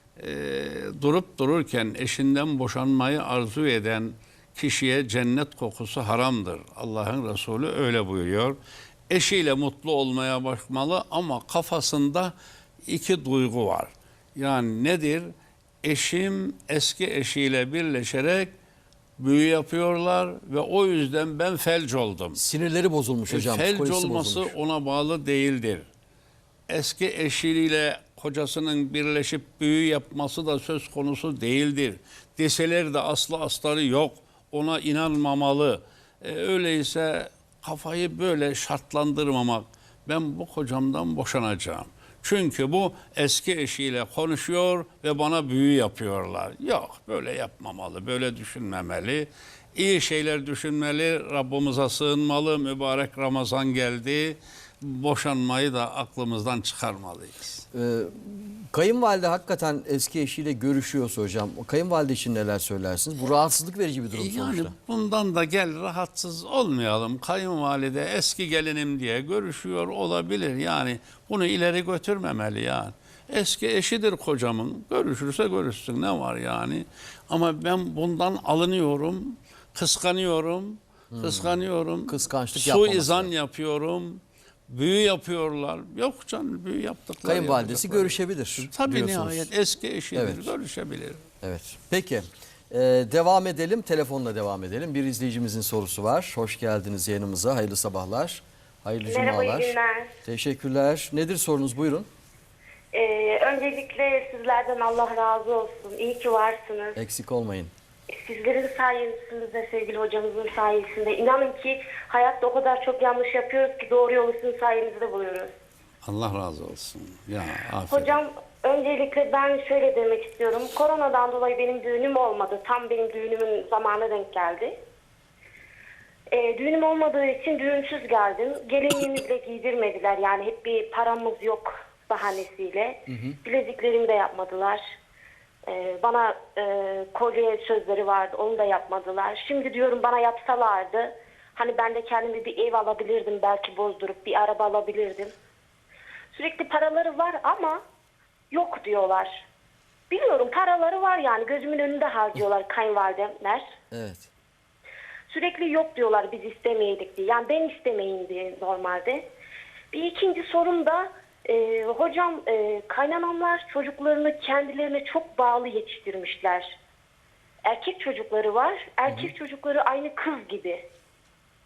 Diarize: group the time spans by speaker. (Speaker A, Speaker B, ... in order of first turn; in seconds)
Speaker A: 0.2-8.6, 9.1-12.3, 12.9-15.3, 15.8-18.5, 19.2-22.4, 23.3-25.9, 26.7-57.6, 64.1-91.2, 116.0-118.2
Speaker B: 22.3-24.5, 57.7-64.7, 81.1-83.3, 87.2-89.5, 90.1-90.5, 91.4-102.1, 107.0-107.7, 133.1-133.4, 153.9-154.3
Speaker C: 99.1-100.1, 102.9-107.0, 108.1-115.5, 117.9-124.7, 126.3-134.9, 135.7-145.3, 146.3-147.8, 148.5-149.4, 150.1-153.6, 155.3-159.2, 159.9-166.7, 167.6-170.8